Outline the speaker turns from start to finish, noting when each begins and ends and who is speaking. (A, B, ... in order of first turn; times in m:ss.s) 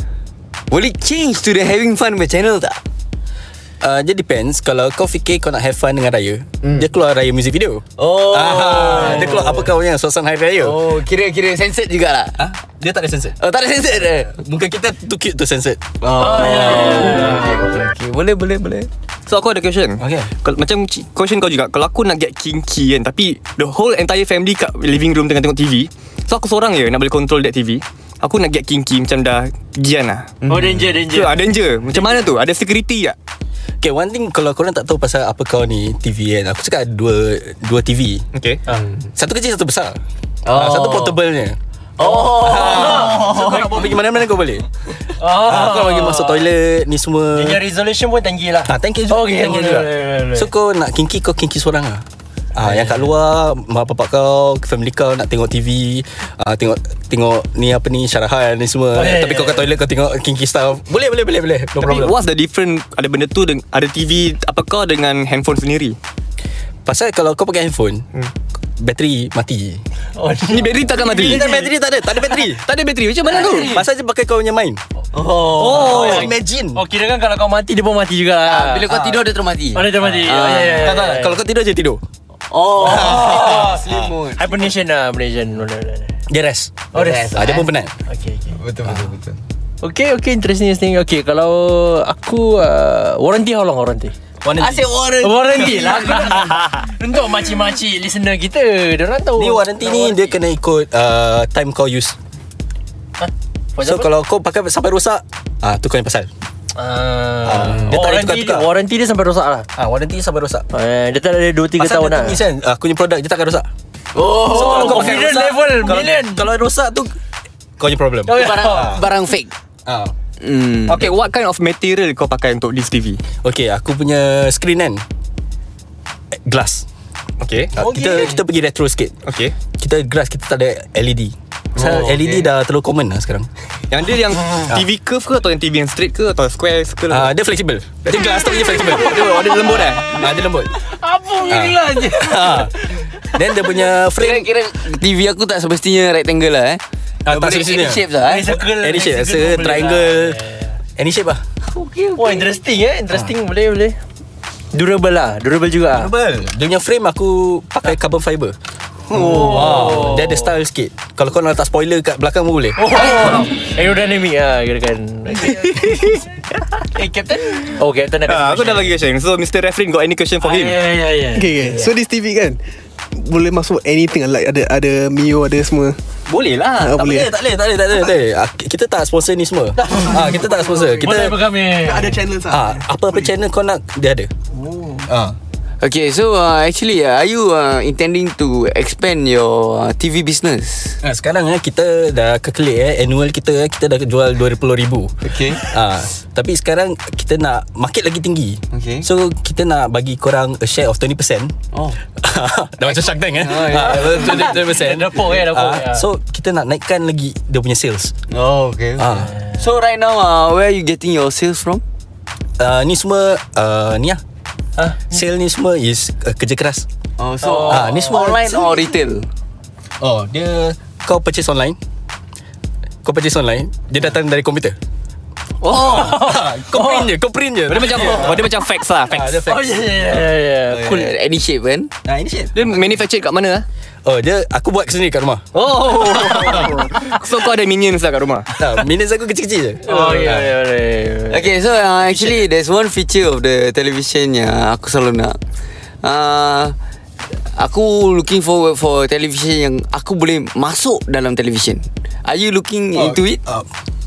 0:00.7-0:02.8 A
0:03.8-0:10.8 B
0:08.0-0:09.7 A
0:09.0-0:09.4 C
0:10.6-0:12.4 A
0:12.4-0:13.4 B
0:13.4-0:14.4 A
0:14.3-0:15.8 B
0:16.0-0:18.9 A
0:16.2-0:17.6 C
0:19.3-0:30.3 D
0:20.0-0:20.3 B
0:30.4-0:30.9 A
0:30.5-0:31.4 C
0:31.1-0:33.2 D
0:33.8-0:38.2 B
0:38.3-0:38.6 D
0:38.7-0:39.0 A
0:39.2-0:40.0 B
0:40.4-0:41.2 A
0:40.5-0:44.6 B
0:42.0-0:43.9 A
0:42.0-0:43.4 C
0:45.2-0:46.5 C
0:45.2-0:47.6 B
0:47.3-0:50.5 C
0:48.6-1:02.2 B
0:52.6-0:53.1 C
0:58.9-0:59.7 C
1:01.8-1:06.0 D
1:06.9-1:08.1 B
1:08.8-1:09.8 B
1:10.2-1:11.7 C
1:10.5-1:11.5 D
1:11.1-1:12.6 B
1:12.4-1:13.8 D
1:13.3-1:14.8 B
1:13.4-1:13.6 A
1:15.1-1:16.2 A
1:15.6-1:16.3 D
1:15.6-1:18.9 C
1:15.6-1:16.8 B
1:18.4-1:21.1 A
1:18.9-1:19.2 B
1:19.7-1:21.4 C
1:20.2-1:22.0 B
1:22.5-1:24.7 A
1:22.8-1:23.8 C
1:22.8-1:24.1 B
1:24.4-1:26.1 C
1:26.3-1:27.9 B
1:26.9-1:27.4 C
1:26.9-1:27.7 A
1:28.1-1:28.6 C
1:28.6-1:29.4 A
1:29.8-1:34.1 C
1:34.4-1:35.0 B
1:34.6-1:36.6 A
1:35.2-1:40.3 C
1:39.4-1:42.2 B
1:43.2-1:44.1 C
1:43.8-1:46.3 B
1:46.7-1:49.7 C
1:47.4-1:48.7 B
1:49.8-1:50.6 B
1:50.7-1:52.4 C
1:51.8-1:53.7 B
1:54.1-1:55.2 A
1:54.4-1:56.5 C
1:54.4-1:57.1 B
1:57.8-1:59.0 B
1:58.2-1:59.0 C
1:58.3-1:59.5 A
1:59.9-2:00.1 B
2:00.4-2:01.1 A
2:00.9-2:03.2 D
2:03.4-2:05.0 B
2:06.4-2:06.8 B
2:07.4-2:07.7 D
2:07.7-2:09.1 B
2:07.8-2:08.4 C
2:09.2-2:09.6 D
2:09.8-2:13.5 B
2:11.8-2:12.4 A
2:13.9-2:17.3 D
2:17.1-2:20.7 B
2:18.7-2:20.2 D
2:20.8-2:23.1 C
2:21.5-2:24.5 B
2:24.2-2:28.5 A
2:27.2-2:30.4 B
2:28.2-2:30.7 C
2:31.0-2:31.4 B
2:31.6-2:32.5 A
2:32.2-2:34.0 C
2:34.7-2:36.1 C
2:35.9-2:38.6 B
2:39.1-2:43.2 B
2:39.1-2:40.5 C
2:42.8-2:46.2 C
2:47.0-2:49.0 C
2:48.3-2:50.8 D
2:50.4-2:51.9 C
2:51.4-2:52.6 E
2:53.1-2:56.0 E
2:56.3-2:57.0 D
2:56.8-2:57.3 E
2:56.9-3:01.4 B
2:59.8-3:00.3 C
3:00.0-3:03.2 E
3:01.0-3:02.3 C
3:02.5-3:04.3 B
3:04.6-3:05.1 C
3:05.1-3:05.4 B
3:05.8-3:11.0 A
3:11.0-3:21.5 B
3:15.2-3:15.6 A
3:18.7-3:19.1 A
3:21.7-3:22.0 A
3:22.2-3:28.1 B
3:22.9-3:24.6 A
3:23.8-3:26.1 C
3:28.3-3:31.8 A
3:29.0-3:29.3 B
3:29.3-3:29.6 C
3:32.6-3:34.2 B
3:34.8-3:35.2 C
3:35.1-3:36.9 B
3:37.2-3:39.3 A
3:37.4-3:38.3 C
3:37.6-3:38.8 B
3:40.0-3:41.8 B
3:43.0-3:44.8 B
3:45.6-3:47.1 C
3:45.6-3:48.5 B
3:47.7-3:49.4 D
3:47.7-3:48.3 C
3:49.1-3:49.8 B
3:49.4-3:51.1 C
3:50.7-3:51.9 A
3:52.0-3:52.8 B
3:52.6-3:53.6 D
3:54.0-3:55.4 B
3:55.5-3:58.5 D
3:55.8-3:56.7 C
3:56.1-3:56.9 B
3:58.6-4:00.5 B
3:59.8-4:01.5 C
4:01.3-4:05.4 A
4:06.0-4:06.7 A
4:07.6-4:13.4 A
4:12.9-4:13.7 B